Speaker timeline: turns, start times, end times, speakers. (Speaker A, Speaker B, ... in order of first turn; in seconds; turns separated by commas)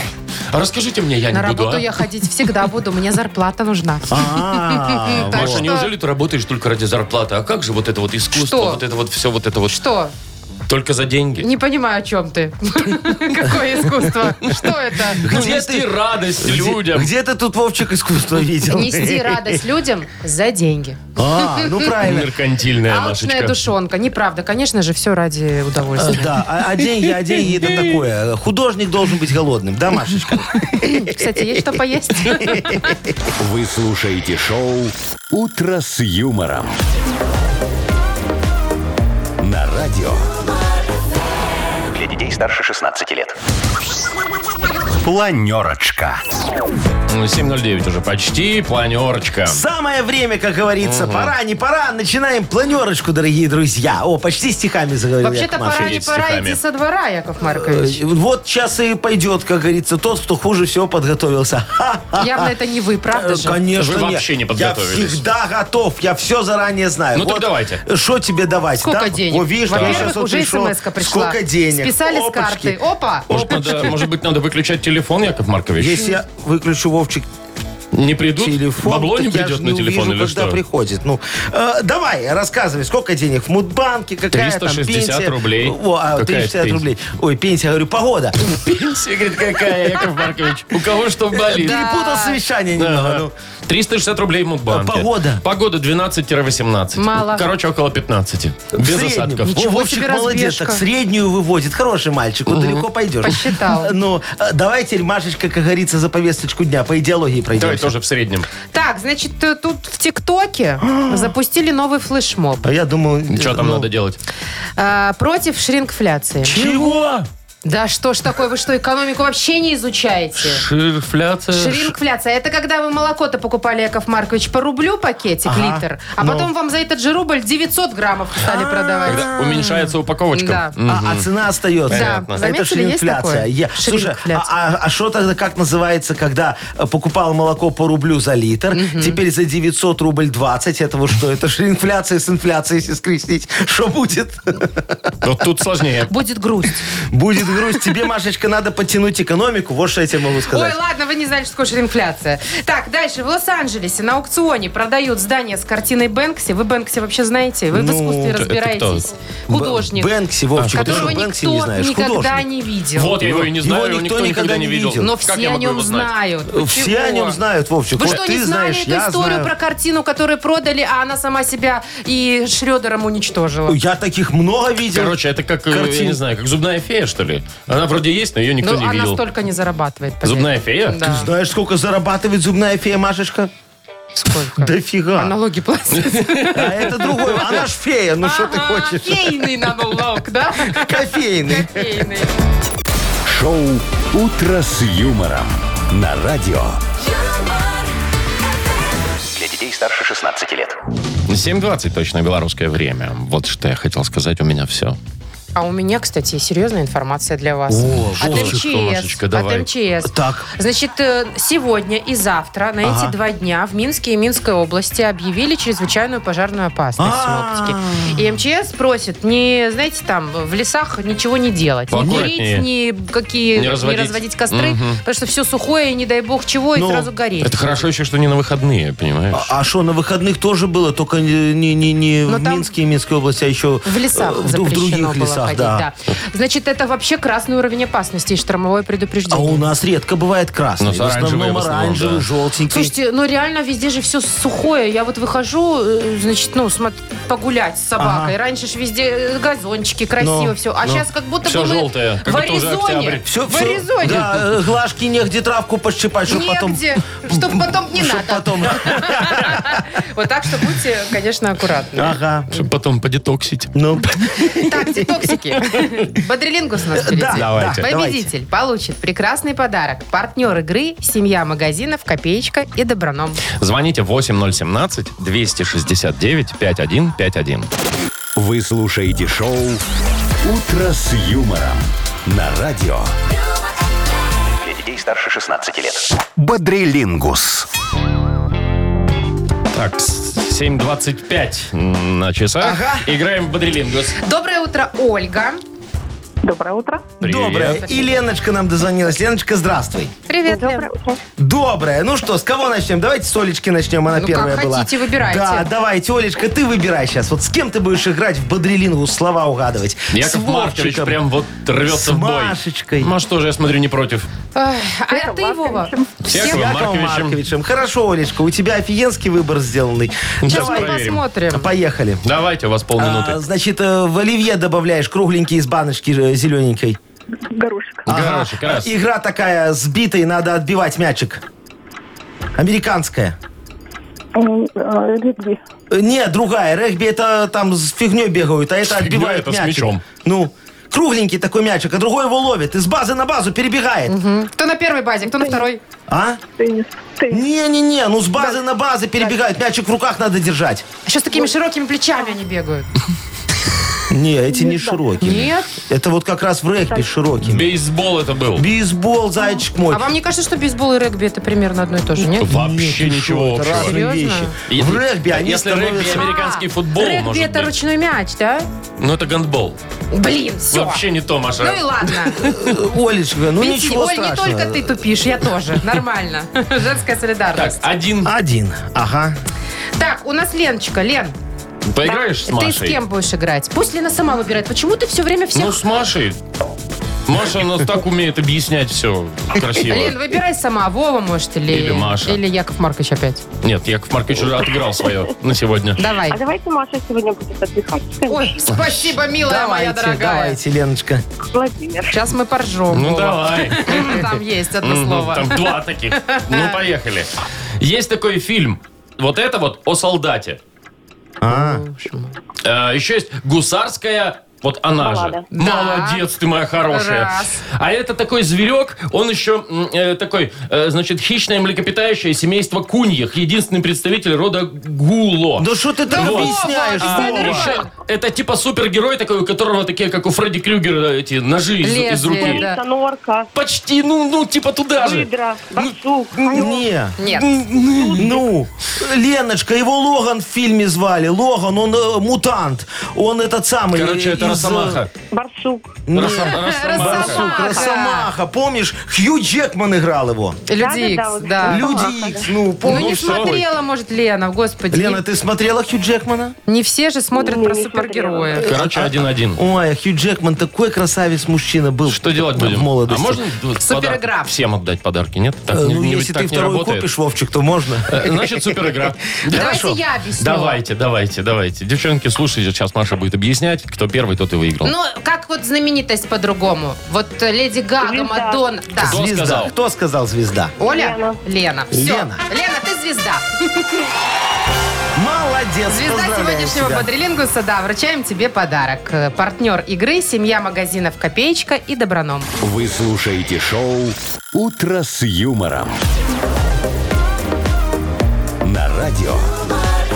Speaker A: 0.5-2.0, Speaker B: 1.3-5.9, Speaker C: 4.1-5.7, Speaker A: 5.3-9.8, Speaker B: 8.3-8.8, Speaker B: 9.7-10.1, Speaker A: 10.7-11.5, Speaker B: 11.4-15.2, Speaker A: 15.2-17.1, Speaker C: 15.2-19.6, Speaker B: 18.7-21.8, Speaker C: 21.2-22.3, Speaker A: 22.0-23.6, Speaker B: 22.9-26.4, Speaker C: 26.0-31.7, Speaker A: 27.2-27.8, Speaker B: 30.8-33.0, Speaker C: 32.3-33.0, Speaker D: 33.4-36.8, Speaker D: 39.4-40.3, Speaker D: 41.9-43.4, Speaker D: 45.0-46.2, Speaker A: 47.1-49.6, Speaker C: 49.5-56.0, Speaker A: 50.8-51.3, Speaker B: 55.2-58.0, Speaker A: 55.8-56.6, Speaker C: 57.5-62.5, Speaker B: 62.2-63.6, Speaker C: 63.1-72.8, Speaker A: 63.8-65.2, Speaker A: 67.2-67.8, Speaker B: 68.8-73.9, Speaker A: 69.7-70.1, Speaker A: 73.3-76.1, Speaker C: 73.3-73.7, Speaker C: 75.8-77.3, Speaker A: 77.9-80.6, Speaker C: 78.4-88.4, Speaker A: 84.3-86.8, Speaker A: 88.4-91.8, Speaker C: 91.3-93.3, Speaker B: 91.5-92.4, Speaker A: 92.8-99.4, Speaker C: 94.7-95.4, Speaker B: 97.0-97.5, Speaker C: 98.7-107.9, Speaker B: 99.5-100.8, Speaker A: 102.5-102.9, Speaker B: 103.2-104.0, Speaker A: 107.5-108.5, Speaker B: 108.7-112.7, Speaker C: 110.8-111.4, Speaker C: 112.6-113.9, Speaker A: 113.3-114.2, Speaker B: 114.8-116.6, Speaker C: 116.4-117.2, Speaker A: 116.5-117.2, Speaker B: 117.6-120.6, Speaker A: 120.4-121.9, Speaker B: 121.5-129.3, Speaker C: 125.4-126.5, Speaker C: 128.4-129.9, Speaker A: 129.1-131.3, Speaker B: 130.3-130.7, Speaker C: 130.9-145.0, Speaker A: 131.9-132.4, Speaker B: 131.9-134.5, Speaker B: 138.7-139.2, Speaker A: 145.2-146.1, Speaker B: 146.1-146.9, Speaker C: 147.1-150.8, Speaker B: 150.5-160.1, Speaker C: 157.7-158.5, Speaker A: 158.4-159.1, Speaker C: 159.5-162.5, Speaker A: 160.6-161.1, Speaker B: 160.7-163.2, Speaker A: 163.0-166.1, Speaker C: 163.2-165.1, Speaker B: 165.0-167.4, Speaker C: 166.5-169.5, Speaker B: 167.9-173.8, Speaker C: 173.7-176.2, Speaker A: 174.9-179.2, Speaker B: 178.6-181.3, Speaker A: 180.2-181.0, Speaker C: 181.0-183.5, Speaker B: 184.2-187.4, Speaker C: 184.6-185.3, Speaker A: 185.9-186.6, Speaker C: 186.5-189.8, Speaker B: 188.2-192.3, Speaker C: 190.6-191.9, Speaker D: 193.3-196.8, Speaker D: 199.3-200.8, Speaker A: 201.3-205.0, Speaker B: 205.6-227.7, Speaker C: 207.7-208.6, Speaker A: 208.1-209.7, Speaker C: 210.1-210.5, Speaker C: 212.8-213.2, Speaker C: 217.0-218.2, Speaker A: 221.9-222.7, Speaker C: 222.0-222.3, Speaker A: 223.6-225.0, Speaker C: 226.8-227.1, Speaker A: 227.4-229.5, Speaker C: 229.3-235.9, Speaker B: 232.3-232.7, Speaker B: 233.8-239.7, Speaker C: 239.3-242.9, Speaker A: 240.8-242.2, Speaker B: 242.7-254.3, Speaker C: 248.0-248.3, Speaker C: 250.2-251.0, Speaker A: 251.4-253.3, Speaker C: 253.3-260.0, Speaker B: 256.3-262.2, Speaker C: 262.0-262.5, Speaker A: 262.5-264.4, Speaker C: 263.7-265.1, Speaker B: 264.6-273.4, Speaker C: 266.9-268.3, Speaker A: 267.3-267.9, Speaker A: 273.6-277.7, Speaker D: 278.4-279.8, Speaker D: 280.4-283.1, Speaker D: 284.6-287.7, Speaker A: 289.7-294.2, Speaker C: 292.6-293.1, Speaker B: 294.2-295.6, Speaker E: 296.4-297.1, Speaker A: 297.2-297.8, Speaker C: 297.2-300.1, Speaker B: 297.7-298.0, Speaker B: 300.3-300.9, Speaker E: 300.4-301.2, Speaker C: 301.4-311.2, Speaker B: 304.1-305.7, Speaker A: 310.1-314.3, Speaker C: 311.8-313.1, Speaker B: 314.6-316.7, Speaker E: 315.1-316.1, Speaker A: 316.3-317.4, Speaker C: 316.3-322.2, Speaker A: 320.4-321.2, Speaker B: 320.5-321.7, Speaker A: 322.2-323.4, Speaker C: 323.0-327.0, Speaker E: 327.5-328.1, Speaker A: 328.1-328.9, Speaker C: 328.1-331.4, Speaker C: 332.6-333.4, Speaker E: 334.4-335.6, Speaker C: 335.9-344.2, Speaker A: 338.9-340.0, Speaker B: 344.1-345.8, Speaker E: 345.3-345.7, Speaker C: 346.1-346.4, Speaker E: 346.6-347.4, Speaker C: 347.3-350.9, Speaker B: 351.1-352.9, Speaker C: 354.1-357.7, Speaker E: 354.5-355.0, Speaker B: 355.2-355.7, Speaker A: 357.4-358.7, Speaker C: 358.6-360.1, Speaker B: 359.9-362.5, Speaker A: 362.2-364.0, Speaker C: 362.4-366.3, Speaker B: 363.7-364.5, Speaker A: 364.7-367.7, Speaker B: 366.0-368.7, Speaker A: 369.0-369.8, Speaker B: 370.1-371.0, Speaker A: 370.7-372.1, Speaker B: 371.6-372.5, Speaker C: 372.3-375.3, Speaker B: 373.6-377.8, Speaker A: 377.6-378.3, Speaker C: 378.2-379.4, Speaker B: 380.0-381.3, Speaker A: 381.9-383.0, Speaker B: 382.0-385.8, Speaker A: 385.6-386.4, Speaker A: 387.3-390.2, Speaker B: 389.8-393.4, Speaker A: 391.7-392.4, Speaker A: 393.6-396.1, Speaker B: 396.0-396.4, Speaker E: 396.3-398.9, Speaker B: 398.3-400.6, Speaker C: 399.4-401.2, Speaker E: 401.5-402.2, Speaker B: 402.1-406.7, Speaker A: 402.9-410.6, Speaker C: 411.4-411.8, Speaker B: 411.5-412.3, Speaker A: 412.6-432.7, Speaker E: 415.0-415.4, Speaker B: 415.5-416.3, Speaker B: 416.9-417.6, Speaker C: 425.6-427.8, Speaker B: 426.1-427.9, Speaker B: 431.8-432.8, Speaker E: 432.4-433.5, Speaker A: 433.5-435.3, Speaker E: 435.0-436.8, Speaker C: 436.4-445.0, Speaker B: 436.5-438.3, Speaker A: 443.9-445.1, Speaker E: 445.3-446.1, Speaker C: 446.1-450.6, Speaker A: 446.1-447.5, Speaker B: 446.2-448.3, Speaker E: 447.2-447.9, Speaker B: 450.7-452.1, Speaker E: 450.7-452.5, Speaker C: 451.6-453.7, Speaker B: 452.8-455.2, Speaker A: 452.9-453.6, Speaker C: 454.9-456.6, Speaker B: 456.7-458.7, Speaker E: 457.3-458.6, Speaker C: 458.6-463.5, Speaker A: 458.6-459.6, Speaker A: 462.1-467.1, Speaker B: 463.8-464.5, Speaker C: 465.7-470.0, Speaker A: 468.1-469.8, Speaker B: 469.5-470.8, Speaker A: 470.4-474.9, Speaker B: 474.8-479.2, Speaker E: 478.0-478.6, Speaker A: 479.0-479.7, Speaker C: 479.0-480.8, Speaker E: 480.8-481.4, Speaker B: 480.8-484.1, Speaker C: 481.9-482.4, Speaker C: 485.2-487.1, Speaker B: 485.9-492.5, Speaker D: 492.6-496.0, Speaker D: 498.6-499.5